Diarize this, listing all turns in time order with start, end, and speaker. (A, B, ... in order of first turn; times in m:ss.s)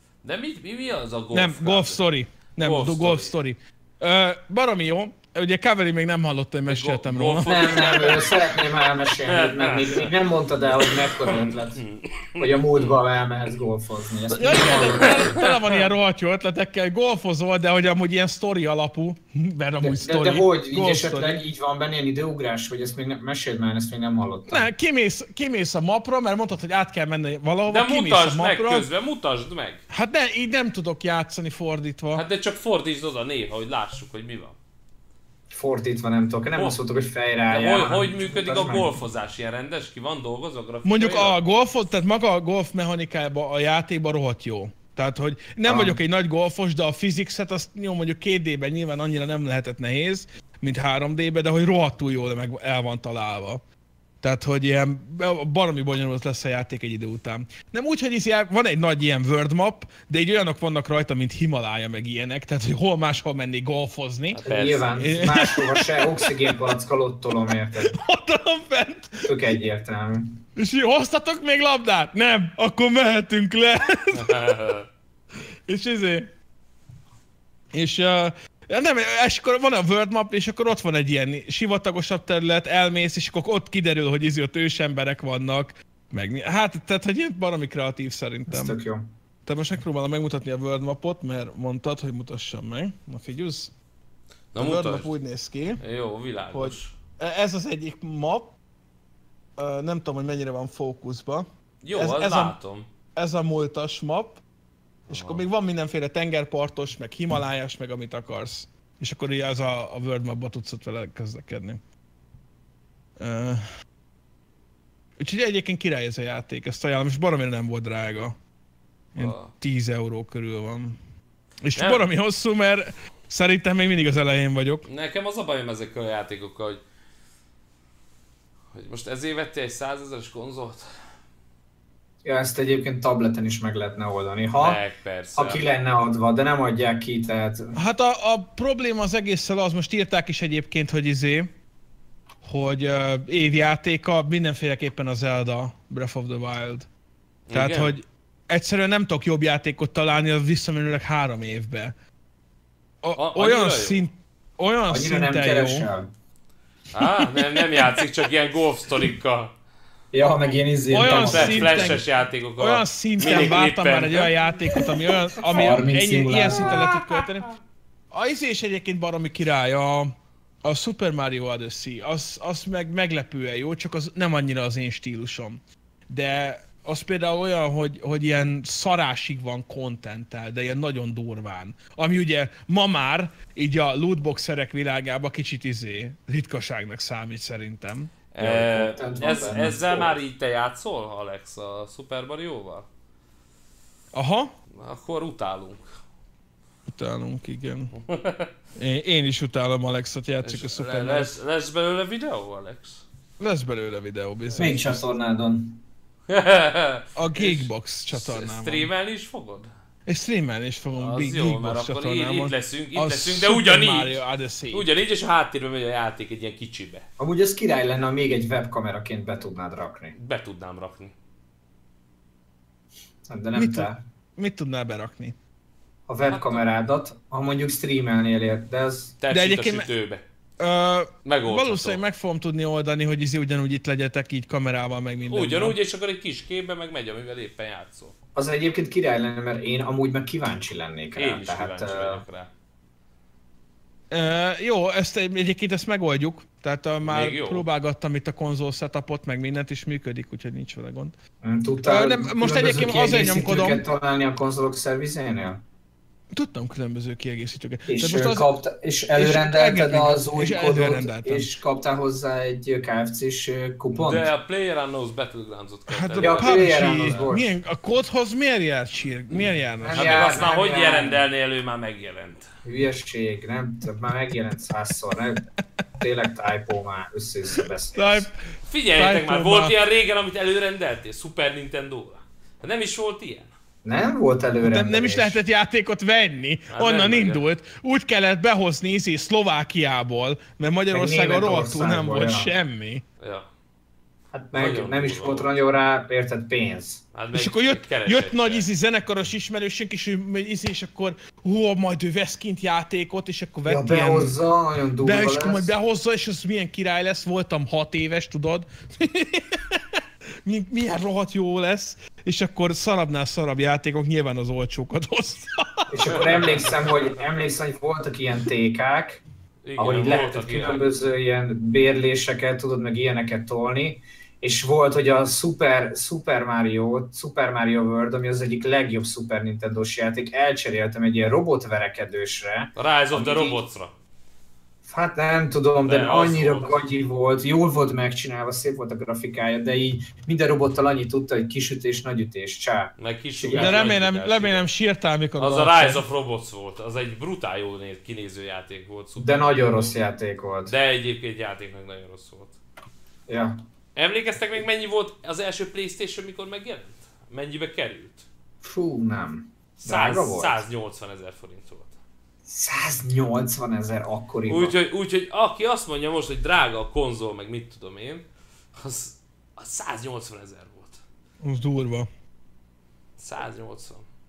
0:00.2-0:02.0 A
0:01.3-0:07.7 B
0:02.6-0:03.3 A
0:06.7-0:08.6 A
0:07.4-0:11.8 C
0:09.2-0:10.1 A
0:10.8-0:13.0 A
0:12.4-0:15.4 C
0:14.3-0:21.4 B
0:14.6-0:15.9 A
0:19.8-0:24.7 C
0:24.5-0:28.9 B
0:27.7-0:29.8 A
0:29.9-0:32.2 B
0:32.1-0:34.6 A
0:35.5-0:39.0 C
0:37.5-0:41.4 A
0:40.8-0:53.6 B
0:45.6-0:46.0 C
0:54.2-1:04.4 B
1:04.3-1:05.0 A
1:04.4-1:08.0 C
1:05.0-1:06.3 B
1:07.8-1:09.3 B
1:09.2-1:10.4 C
1:10.6-1:14.6 B
1:14.1-1:14.8 A
1:15.7-1:16.3 B
1:17.7-1:28.8 B
1:28.5-1:29.1 C
1:29.4-1:33.7 B
1:34.5-1:35.1 A
1:34.6-1:35.8 B
1:35.8-1:36.9 A
1:36.5-1:38.5 B
1:39.6-1:42.6 B
1:41.8-1:42.9 A
1:43.1-1:44.4 B
1:45.1-1:45.4 A
1:45.1-1:51.8 B
1:53.2-1:53.6 B
1:55.2-1:58.4 B
1:59.1-2:01.0 B
1:59.2-1:59.5 A
2:01.6-2:04.8 B
2:01.8-2:02.0 A
2:04.9-2:06.8 A
2:08.7-2:10.9 A
2:12.2-2:14.8 C
2:14.6-2:15.6 A
2:15.3-2:17.7 C
2:17.7-2:21.5 B
2:22.4-2:26.9 B
2:27.5-2:28.0 A
2:27.5-2:31.9 B
2:33.0-2:35.9 B
2:33.2-2:34.0 A
2:34.9-2:36.1 C
2:36.9-2:39.5 A
2:40.1-2:42.0 C
2:40.9-2:42.0 B
2:41.0-2:44.3 A
2:42.6-2:47.5 B
2:45.4-2:46.8 C
2:46.5-2:47.2 A
2:48.1-3:08.1 B
3:08.3-3:12.8 A
3:08.4-3:10.2 C
3:14.1-3:14.5 B
3:14.7-3:15.9 A
3:16.9-3:17.9 B
3:17.9-3:18.5 A
3:18.8-3:21.4 B
3:20.4-3:23.0 A
3:23.4-3:25.0 B
3:24.6-3:25.8 C
3:26.3-3:29.7 A
3:27.2-3:28.9 B
3:30.1-3:34.9 B
3:31.0-3:34.2 A
3:34.7-3:37.0 A
3:37.2-3:40.1 C
3:40.2-3:41.1 A
3:43.3-3:44.0 C
3:43.5-3:45.4 B
3:46.1-3:49.1 C
3:46.3-3:46.6 A
3:49.2-3:50.2 A
3:49.3-3:49.9 B
3:50.6-3:55.8 B
3:51.2-3:52.0 A
3:55.3-3:58.1 A
3:58.3-4:02.2 C
4:01.2-4:02.5 A
4:04.1-4:11.2 B
4:07.0-4:07.6 A
4:11.4-4:15.6 C
4:11.8-4:13.8 B
4:16.3-4:18.5 B
4:17.9-4:24.3 C
4:19.2-4:21.5 B
4:23.9-4:27.2 A
4:25.9-4:30.3 B
4:26.2-4:27.5 C
4:29.8-4:31.2 C
4:29.9-4:32.5 A
4:32.6-4:35.5 C
4:36.0-4:38.3 C
4:37.9-4:39.7 B
4:38.7-4:43.5 A
4:43.8-4:45.4 C
4:44.6-4:53.0 B
4:46.7-4:47.4 A
4:50.9-4:52.5 C
4:53.2-4:53.5 A
4:54.3-4:57.0 C
4:54.5-4:55.5 A
4:57.1-4:58.7 A
4:57.3-5:04.3 B
5:03.6-5:05.7 C
5:05.0-5:16.2 B
5:15.9-5:19.2 C
5:16.1-5:16.8 A
5:19.6-5:20.8 A
5:19.8-5:33.6 C
5:32.8-5:33.9 A
5:34.8-5:43.8 C
5:35.8-5:36.8 A
5:43.0-5:44.6 A
5:43.5-5:46.0 B
5:45.4-5:49.9 A
5:49.2-5:50.7 C
5:50.7-5:52.6 A
5:53.3-5:53.6 C
5:54.0-5:58.2 A
5:58.6-6:00.6 C
5:59.8-6:02.0 A
6:02.4-6:04.8 C
6:04.5-6:11.0 A
6:11.4-6:12.1 B
6:13.2-6:14.0 A